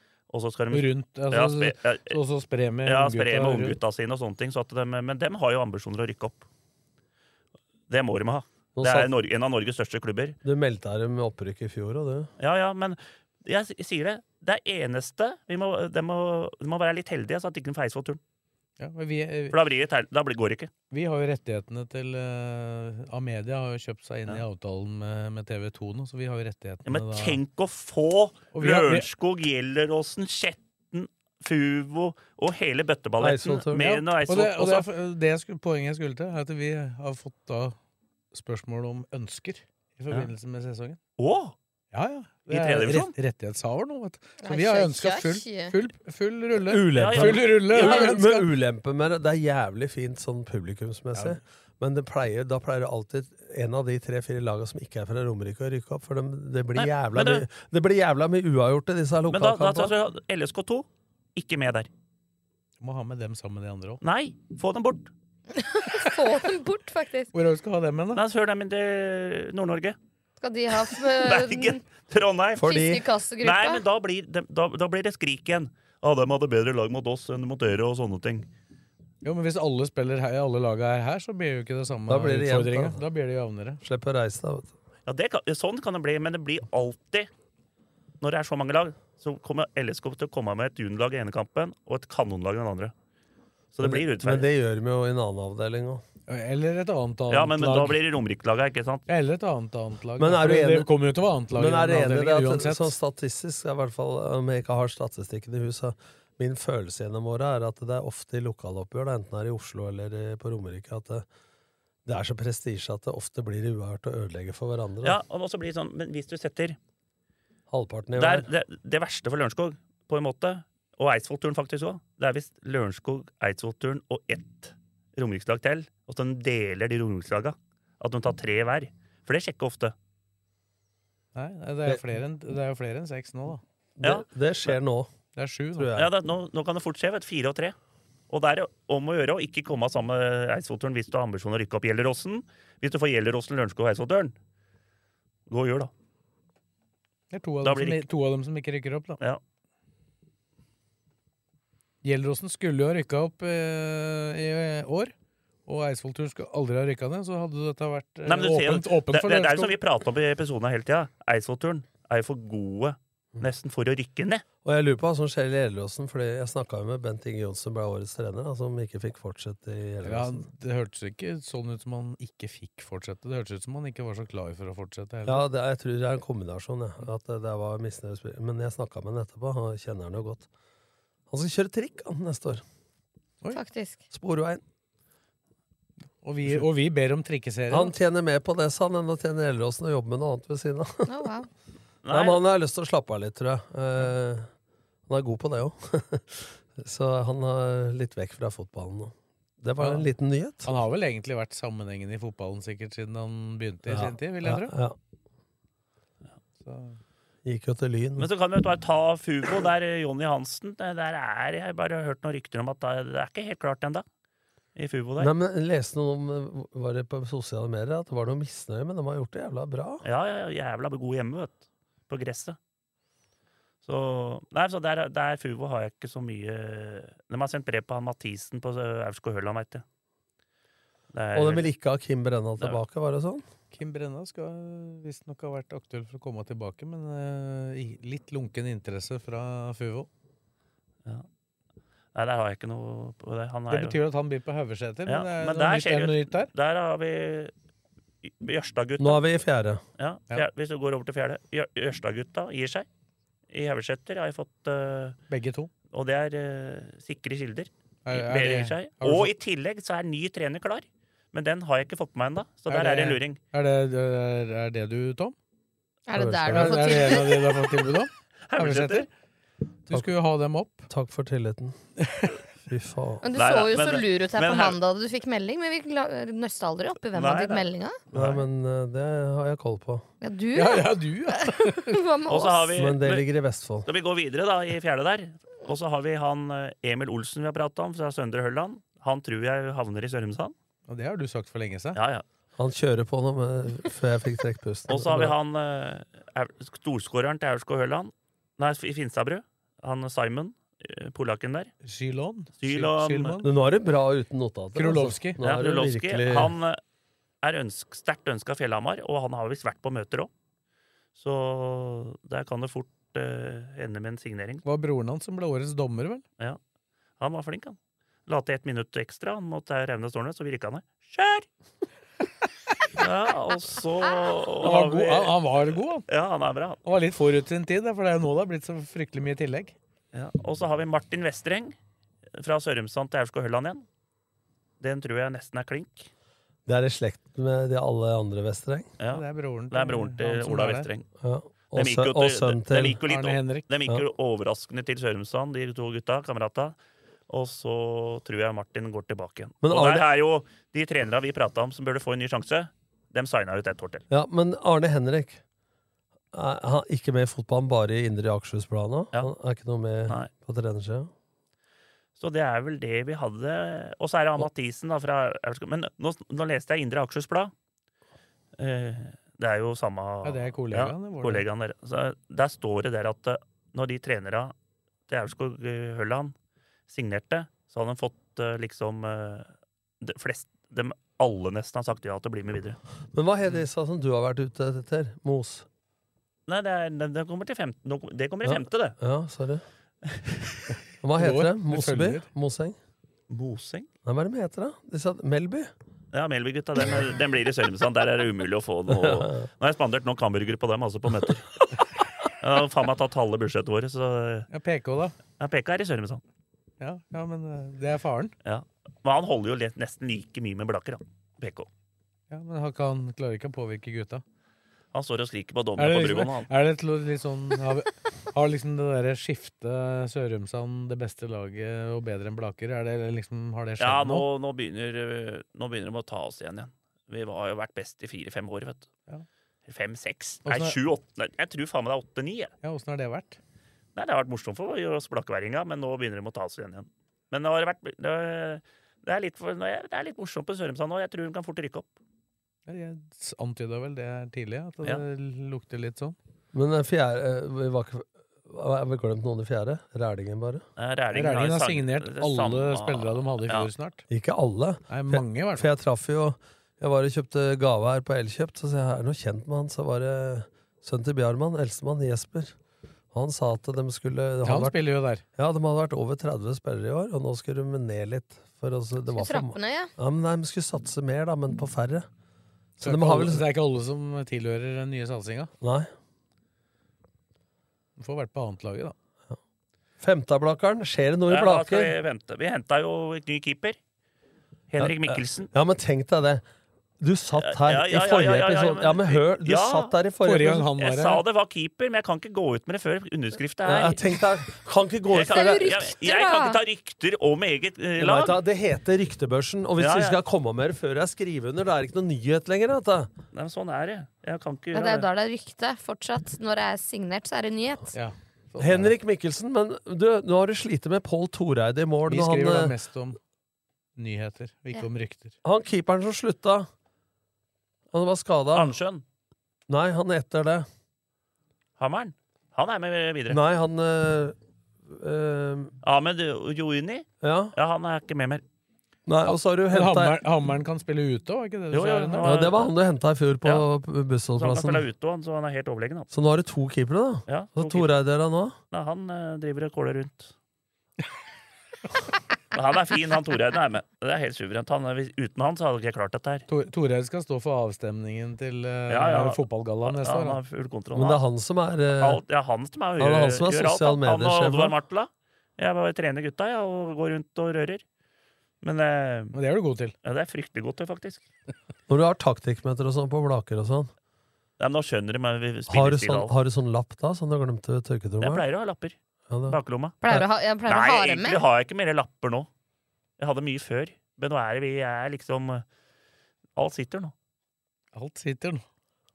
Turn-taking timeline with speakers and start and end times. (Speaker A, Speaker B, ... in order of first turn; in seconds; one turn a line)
Speaker A: 0.3-2.2
Speaker B: 0.7-3.8
Speaker A: 2.8-6.5
Speaker A: 7.9-10.4
Speaker C: 8.8-9.1
Speaker C: 10.4-12.3
Speaker A: 12.4-18.2
Speaker B: 18.8-19.6
Speaker A: 19.5-20.7
Speaker B: 20.9-27.4
Speaker A: 26.9-34.9
Speaker B: 28.5-29.1
Speaker C: 33.2-33.8
Speaker B: 33.8-37.8
Speaker B: 38.3-41.0
Speaker A: 41.2-41.5
Speaker B: 41.9-48.5
Speaker A: 42.5-43.1
Speaker D: 44.4-45.7
Speaker C: 46.6-59.9
Speaker A: 47.0-48.2
Speaker A: 56.7-57.4
Speaker A: 59.3-61.9
Speaker B: 62.8-64.0
Speaker A: 64.0-65.1
Speaker D: 65.5-67.3
Speaker B: 67.3-68.2
Speaker A: 68.1-70.0
Speaker D: 70.4-71.8
Speaker A: 71.2-72.9
Speaker C: 72.5-73.0
Speaker D: 72.6-73.8
Speaker A: 73.4-78.5
Speaker B: 79.2-83.8
Speaker C: 82.1-83.0
Speaker C: 83.8-84.7
Speaker A: 85.0-87.3
Speaker A: 88.2-92.9
Speaker A: 93.7-94.5
Speaker C: 93.8-96.0
Speaker B: 96.3-98.0
Speaker A: 97.3-99.0
Speaker B: 99.1-102.9
Speaker C: 100.2-100.9
Speaker C: 101.5-111.2
Speaker C: 112.0-115.2
Speaker A: 115.0-116.8
Speaker C: 117.7-118.5
Speaker A: 118.2-129.9
Speaker B: 131.3-133.6
Speaker C: 134.0-135.1
Speaker B: 135.3-135.9
Speaker C: 135.7-136.1
Speaker A: 135.9-137.8
Speaker A: 138.3-144.3
Speaker A: 145.5-145.9
Speaker B: 147.3-149.2
Speaker A: 147.6-148.0
Speaker B: 152.0-155.1
Speaker B: 155.7-159.8
Speaker A: 158.2-164.4
Speaker C: 164.6-170.5
Speaker B: 170.0-175.4
Speaker C: 175.2-180.5
Speaker C: 181.3-182.6
Speaker D: 183.5-184.0
Speaker C: 184.1-184.6
Speaker B: 186.2-187.9
Speaker C: 187.7-191.3
Speaker D: 191.1-191.5
Speaker A: 192.0-192.4
Speaker C: 192.1-194.5
Speaker C: 195.1-200.7
Speaker B: 199.8-200.1
Speaker B: 200.6-204.7
Speaker C: 203.9-204.9
Speaker B: 206.6-207.0
Speaker C: 207.4-208.3
Speaker A: 208.2-214.0
Speaker A: 214.8-215.3
Speaker C: 215.2-220.0
Speaker A: 220.0-221.6
Speaker A: 222.1-222.6
Speaker A: 223.8-229.8
Speaker A: 231.1-231.7
Speaker C: 231.3-233.4
Speaker B: 233.7-240.1
Speaker A: 242.1-244.0
Speaker B: 243.7-246.5
Speaker A: 245.1-247.5
Speaker A: 248.2-249.2
Speaker C: 249.0-249.8
Speaker A: 250.0-252.9
Speaker A: 253.5-255.2
Speaker B: 255.3-255.7
Speaker A: 255.9-263.4
Speaker B: 258.1-259.3
Speaker B: 262.7-265.3
Speaker D: 266.1-267.6
Speaker C: 266.1-267.2
Speaker B: 266.5-269.1
Speaker A: 268.5-269.1
Speaker B: 269.9-270.9
Speaker C: 270.9-271.8
Speaker B: 272.0-272.4
Speaker C: 272.6-273.2
Speaker D: 273.2-278.0
Speaker A: 273.4-274.8
Speaker A: 277.1-278.4
Speaker C: 278.1-280.0
Speaker D: 280.2-282.7
Speaker B: 280.5-282.0
Speaker A: 282.3-283.3
Speaker C: 282.7-283.9
Speaker A: 283.8-290.5
Speaker B: 290.9-292.0
Speaker A: 291.9-292.2
Speaker C: 292.6-295.4
Speaker A: 294.9-301.7
Speaker B: 301.8-303.5
Speaker A: 302.6-303.4
Speaker C: 303.4-306.5
Speaker B: 304.7-305.4
Speaker A: 305.4-306.8
Speaker A: 307.4-310.3
Speaker A: 311.1-314.6
Speaker B: 314.6-316.2
Speaker A: 317.2-321.4
Speaker A: 323.0-325.4
Speaker B: 324.6-326.1
Speaker A: 326.1-326.8
Speaker B: 326.8-329.7
Speaker A: 330.1-331.7
Speaker A: 332.4-333.8
Speaker A: 334.8-336.1
Speaker C: 336.6-338.9
Speaker A: 339.0-341.1
Speaker B: 339.1-340.9
Speaker C: 341.2-343.0
Speaker A: 341.7-346.8
Speaker B: 343.0-343.7
Speaker A: 347.3-354.0
Speaker C: 349.6-350.1
Speaker C: 354.1-355.4
Speaker C: 356.3-361.1
Speaker A: 362.2-367.5
Speaker A: 368.6-374.5
Speaker B: 370.2-371.4
Speaker A: 375.1-376.3
Speaker A: 376.9-379.5
Speaker A: 380.0-382.8
Speaker C: 383.1-385.6
Speaker A: 386.5-388.9
Speaker C: 388.4-389.6
Speaker A: 390.1-390.6
Speaker C: 391.0-392.8
Speaker B: 391.2-392.2
Speaker A: 393.3-393.9
Speaker C: 394.0-395.7
Speaker A: 396.1-401.5
Speaker C: 398.9-399.4
Speaker A: 402.4-404.5
Speaker B: 404.5-405.1
Speaker A: 405.4-406.2
Speaker B: 406.8-408.3
Speaker A: 408.4-411.7
Speaker B: 412.3-414.2
Speaker A: 414.9-416.5
Speaker B: 415.8-424.2
Speaker A: 423.8-428.9
Speaker A: 429.7-432.5
Speaker B: 430.4-430.8
Speaker B: 432.6-433.4
Speaker A: 433.9-441.9
Speaker B: 442.7-446.1
Speaker C: 446.5-450.6
Speaker A: 450.8-453.7
Speaker B: 451.1-454.0
Speaker C: 454.1-462.5
Speaker B: 454.9-455.7
Speaker C: 463.1-464.8
Speaker B: 464.4-465.2
Speaker C: 465.4-472.1
Speaker D: 469.1-469.9
Speaker C: 472.8-473.4
Speaker B: 472.8-475.5
Speaker C: 475.6-475.9
Speaker B: 478.0-478.9
Speaker C: 480.0-481.9
Speaker A: 481.3-483.8
Speaker A: 484.7-485.5
Speaker C: 484.8-486.4
Speaker C: 487.0-490.7
Speaker A: 487.4-489.9
Speaker B: 490.2-491.2
Speaker A: 490.8-494.0
Speaker C: 493.6-495.9
Speaker A: 495.1-498.4
Speaker D: 495.3-496.6
Speaker C: 498.0-503.1
Speaker A: 499.8-500.2
Speaker A: 503.3-505.1
Speaker D: 504.7-507.9
Speaker B: 507.9-508.9
Speaker C: 508.6-512.8
Speaker B: 512.1-513.2
Speaker B: 514.0-515.4
Speaker C: 515.4-516.7
Speaker C: 517.9-518.8
Speaker A: 518.5-519.0
Speaker C: 519.7-520.6
Speaker A: 521.8-523.4
Speaker C: 523.3-524.4
Speaker C: 524.9-525.7
Speaker A: 525.8-528.4
Speaker C: 527.2-527.5
Speaker C: 529.0-530.2
Speaker B: 529.3-532.3
Speaker A: 531.7-532.7
Speaker C: 532.2-534.9
Speaker A: 534.4-536.1
Speaker C: 536.1-538.5
Speaker A: 537.3-537.9
Speaker A: 538.7-540.3
Speaker A: 542.5-546.5
Speaker B: 546.5-550.4
Speaker A: 548.9-551.2
Speaker C: 550.9-552.2
Speaker A: 552.0-557.8
Speaker C: 553.0-554.8
Speaker A: 558.6-559.4
Speaker B: 559.3-559.9
Speaker A: 560.0-561.2
Speaker C: 561.9-563.9
Speaker A: 564.6-566.3
Speaker C: 565.7-568.4
Speaker A: 568.2-568.9
Speaker C: 569.3-570.2
Speaker A: 569.5-570.0
Speaker D: 570.0-571.4
Speaker A: 570.6-572.5
Speaker A: 573.2-575.6
Speaker A: 576.5-577.1
Speaker B: 577.9-578.6